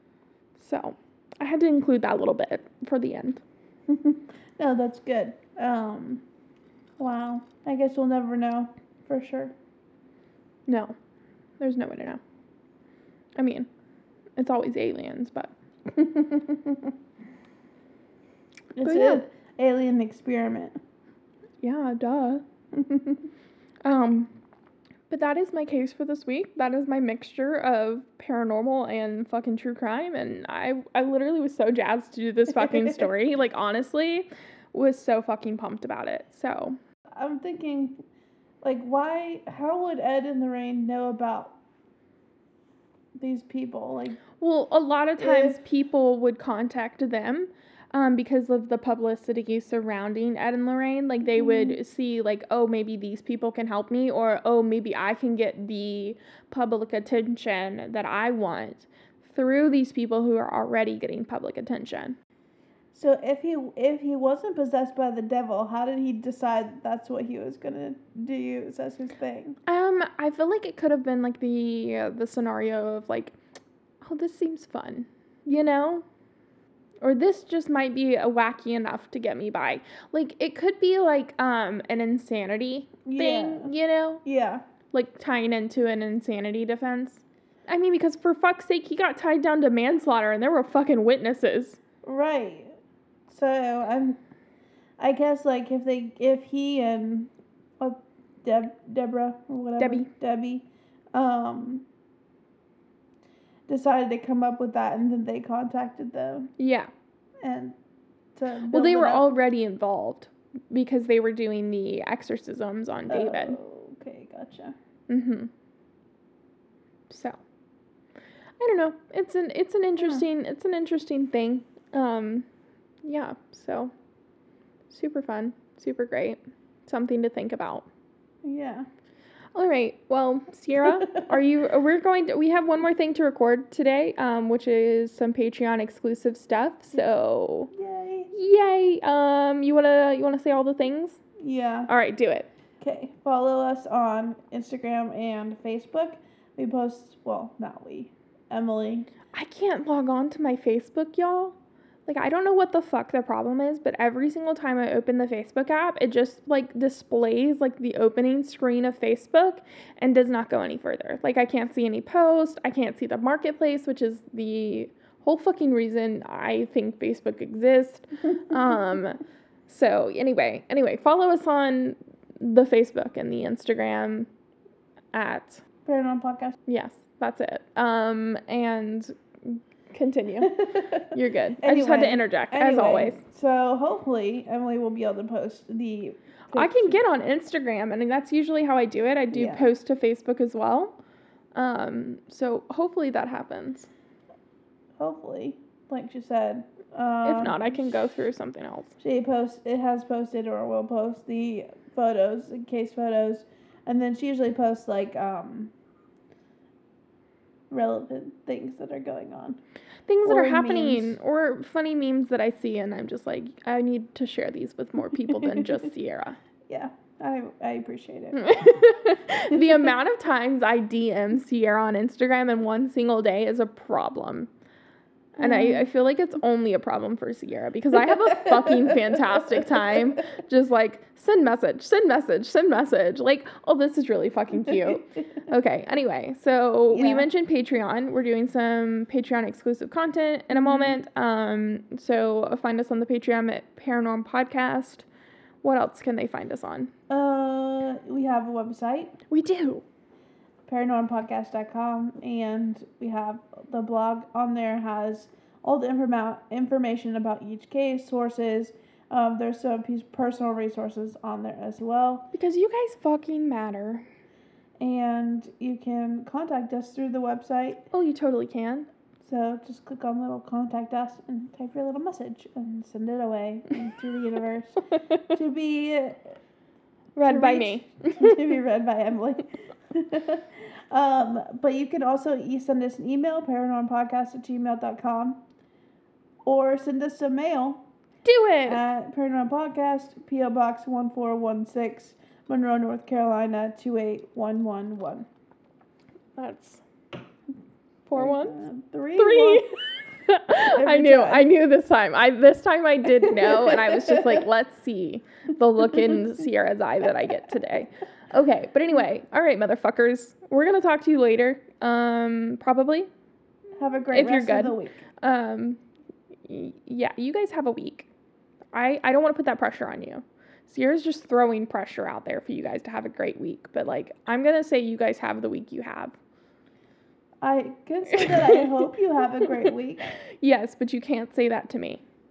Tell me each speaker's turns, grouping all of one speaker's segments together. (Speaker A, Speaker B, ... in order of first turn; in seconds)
Speaker A: 0.6-3.4, 10.7-10.9, 11.6-12.2, 13.3-13.7, 14.4-15.5, 18.8-19.2, 21.6-22.4, 23.8-24.3, 25.1-36.8, 44.4-62.2, 69.7-73.3, 74.0-76.0, 77.0-84.2, 84.9-91.8, 99.8-100.1, 106.6-106.9, 108.7-113.6, 115.1-115.5, 117.1-117.4, 118.6-122.5, 123.0-123.9, 124.9-127.9, 129.5-137.7, 138.3-141.2, 141.9-142.5, 149.3-174.3, 175.1-175.6, 176.7-183.2, 186.5-191.0, 191.5-193.9, 197.2-198.9, 210.1-216.4, 218.3-224.5, 225.4-245.1, 245.6-246.9, 249.3-249.8, 262.3-264.1, 267.9-268.9, 277.1-278.5, 288.2-288.9, 296.4-296.8, 298.1-298.6, 299.1-313.1, 314.1-315.8, 316.5-318.1, 318.7-326.1, 328.1-328.7, 329.4-329.7, 330.4-332.0
Speaker B: 3.9-6.2, 7.0-9.5, 15.9-16.9, 18.8-20.8, 22.8-23.1, 32.6-33.1, 37.1-38.0, 38.6-41.5, 43.1-44.2, 45.2-45.6, 51.3-51.8, 62.9-69.6, 83.0-83.7, 84.2-84.6, 92.0-94.2, 95.0-101.8, 103.7-106.5, 107.4-107.8, 108.3-109.2, 113.1-114.7, 128.4-128.9, 131.0-131.2, 137.7-138.3, 141.4-141.9, 142.8-149.1, 175.8-176.6, 180.4-187.0, 189.3-189.7, 195.0-197.8, 199.0-205.7, 207.7-209.6, 210.2-211.2, 216.7-218.5, 225.3-225.8, 228.4-229.0, 236.9-237.3, 240.5-240.9, 247.1-249.2, 250.7-262.3, 264.8-267.9, 269.2-276.4, 277.2-285.4, 286.4-287.8, 288.6-295.3, 298.2-299.7, 300.7-301.5, 303.4-304.2, 313.8-315.0, 327.4-330.2